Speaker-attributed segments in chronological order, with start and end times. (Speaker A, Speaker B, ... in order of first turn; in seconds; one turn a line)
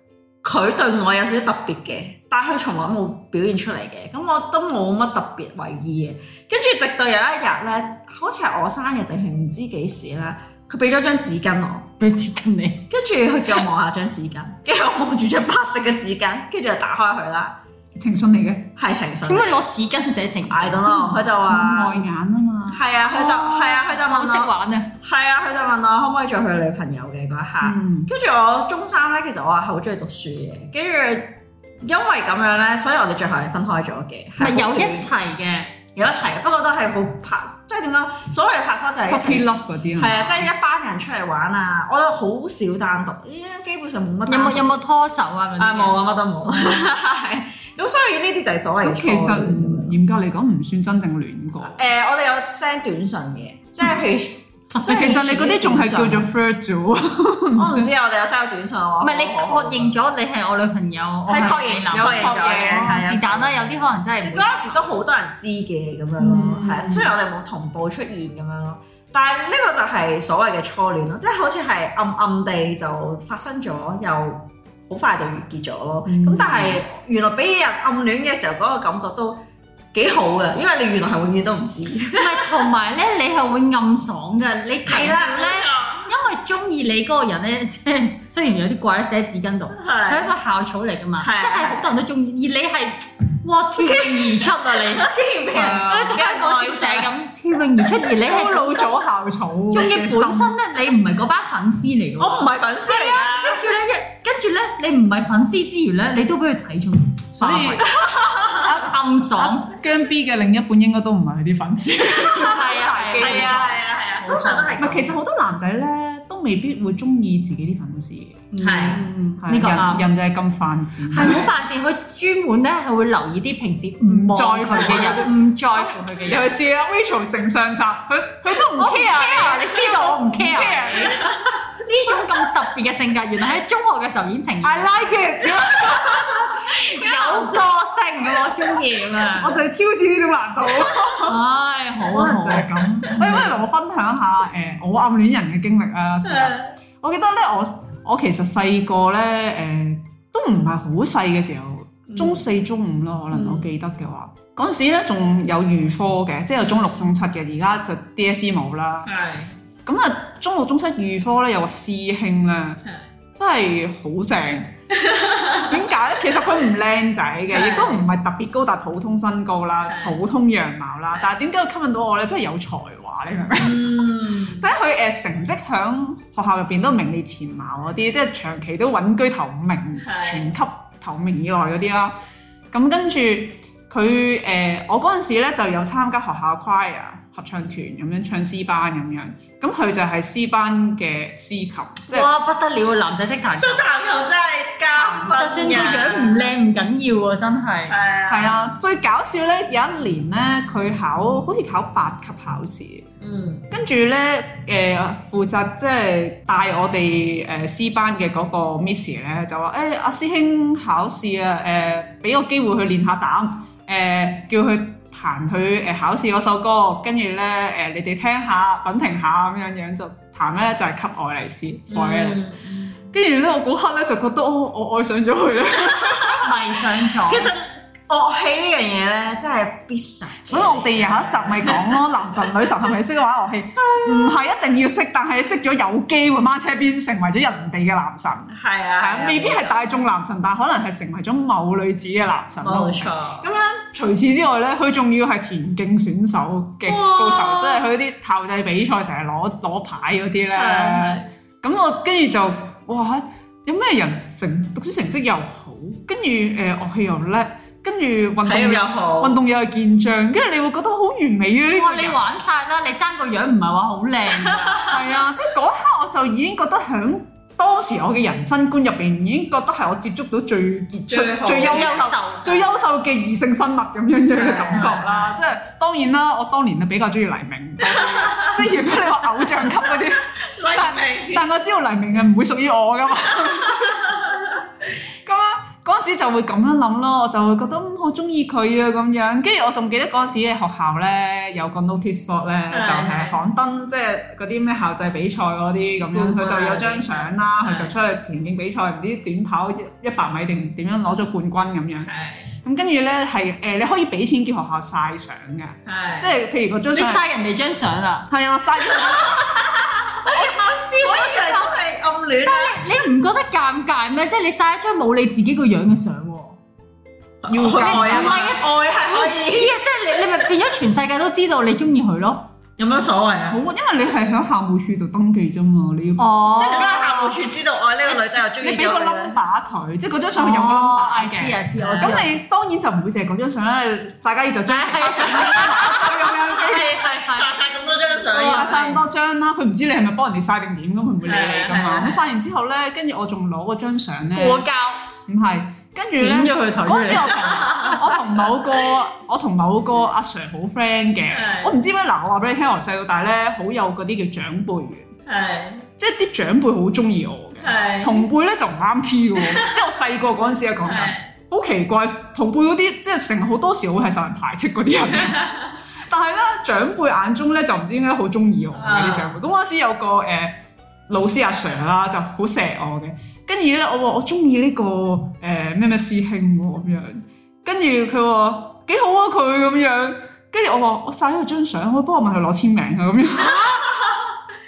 Speaker A: 0.4-11.9
Speaker B: 12.0-12.8
Speaker A: 12.9-17.6
Speaker C: 17.9-18.7
Speaker A: 18.8-19.6
Speaker B: 19.2-21.2
Speaker A: 20.5-22.0
Speaker C: 20.9-22.8
Speaker A: 22.7-35.1
Speaker B: 23.0-24.9
Speaker C: 27.6-28.1
Speaker B: 34.4-35.7
Speaker A: 35.9-44.8
Speaker C: 39.1-40.5
Speaker B: 44.3-46.9
Speaker A: 45.6-50.0
Speaker C: 48.8-51.8
Speaker A: 51.6-56.3
Speaker B: 54.7-55.2
Speaker C: 54.9-57.9
Speaker A: 57.5-59.9
Speaker B: 59.0-64.9
Speaker A: 61.3-79.4
Speaker C: 61.9-63.0
Speaker C: 66.2-67.1
Speaker C: 76.0-76.8
Speaker A: 79.9-82.6
Speaker B: 82.1-99.0
Speaker A: 84.8-86.1
Speaker A: 89.7-90.3
Speaker A: 91.2-92.0
Speaker A: 93.8-97.1
Speaker C: 95.5-96.1
Speaker C: 98.2-100.5
Speaker B: 99.7-107.9
Speaker A: 102.2-103.8
Speaker C: 107.4-107.9
Speaker A: 107.9-108.7
Speaker C: 108.5-118.5
Speaker B: 108.6-109.7
Speaker A: 112.3-112.6
Speaker B: 112.3-113.6
Speaker A: 113.2-115.2
Speaker B: 114.2-114.7
Speaker B: 118.5-120.1
Speaker A: 118.6-119.0
Speaker C: 119.4-121.5
Speaker B: 121.1-126.5
Speaker C: 124.0-131.4
Speaker B: 128.8-139.6
Speaker C: 134.6-137.6
Speaker A: 137.1-137.5
Speaker C: 139.4-141.4
Speaker B: 141.2-143.4
Speaker C: 142.0-159.1
Speaker A: 146.2-146.7
Speaker A: 152.1-152.4
Speaker A: 153.3-153.7
Speaker A: 159.1-159.5
Speaker C: 159.8-162.8
Speaker C: 163.4-164.7
Speaker A: 164.9-165.7
Speaker C: 165.6-182.1
Speaker A: 167.5-168.1
Speaker A: 169.8-170.2
Speaker A: 173.6-174.7
Speaker A: 180.0-180.5
Speaker C: 182.7-192.3
Speaker B: 192.1-193.8
Speaker A: 193.5-196.5
Speaker C: 194.9-196.0
Speaker B: 195.2-197.9
Speaker A: 197.9-198.7
Speaker C: 198.3-203.1
Speaker A: 203.2-203.7
Speaker C: 203.7-226.5
Speaker A: 221.9-222.7
Speaker A: 225.9-226.5
Speaker B: 226.4-227.5
Speaker A: 227.1-232.0
Speaker C: 230.5-262.2
Speaker A: 233.8-234.4
Speaker A: 238.5-239.8
Speaker A: 242.6-243.5
Speaker A: 246.8-247.9
Speaker A: 250.5-251.2
Speaker A: 258.4-259.4
Speaker B: 261.7-264.9
Speaker A: 264.5-264.9
Speaker C: 264.9-284.2
Speaker A: 271.1-272.1
Speaker B: 271.6-272.6
Speaker A: 274.3-275.3
Speaker A: 277.8-278.7
Speaker A: 279.5-281.4
Speaker A: 283.4-284.6
Speaker C: 285.2-302.1
Speaker A: 292.7-293.4
Speaker A: 296.1-297.9
Speaker A: 302.0-302.5
Speaker C: 302.6-307.2
Speaker A: 305.9-306.3
Speaker B: 306.9-308.3
Speaker C: 308.3-309.5
Speaker A: 309.1-313.0
Speaker B: 309.4-311.8
Speaker B: 312.4-316.6
Speaker A: 317.4-319.8
Speaker C: 317.5-318.6
Speaker B: 317.7-322.4
Speaker A: 322.8-323.6
Speaker C: 323.5-327.1
Speaker B: 326.2-327.4
Speaker A: 326.6-329.4
Speaker C: 328.6-337.0
Speaker B: 330.4-332.4
Speaker A: 331.8-332.2
Speaker B: 334.7-337.5
Speaker A: 337.2-339.0
Speaker B: 338.3-338.7
Speaker C: 338.4-344.7
Speaker A: 341.2-342.2
Speaker B: 344.3-345.0
Speaker C: 345.2-355.1
Speaker B: 346.2-348.2
Speaker A: 347.4-348.0
Speaker A: 351.3-351.7
Speaker A: 355.2-355.9
Speaker C: 356.0-365.5
Speaker A: 357.6-358.3
Speaker A: 359.4-359.7
Speaker A: 360.8-361.3
Speaker A: 365.2-365.7
Speaker C: 366.1-370.5
Speaker A: 368.7-369.4
Speaker C: 371.1-383.8
Speaker B: 383.4-383.8
Speaker A: 383.5-384.3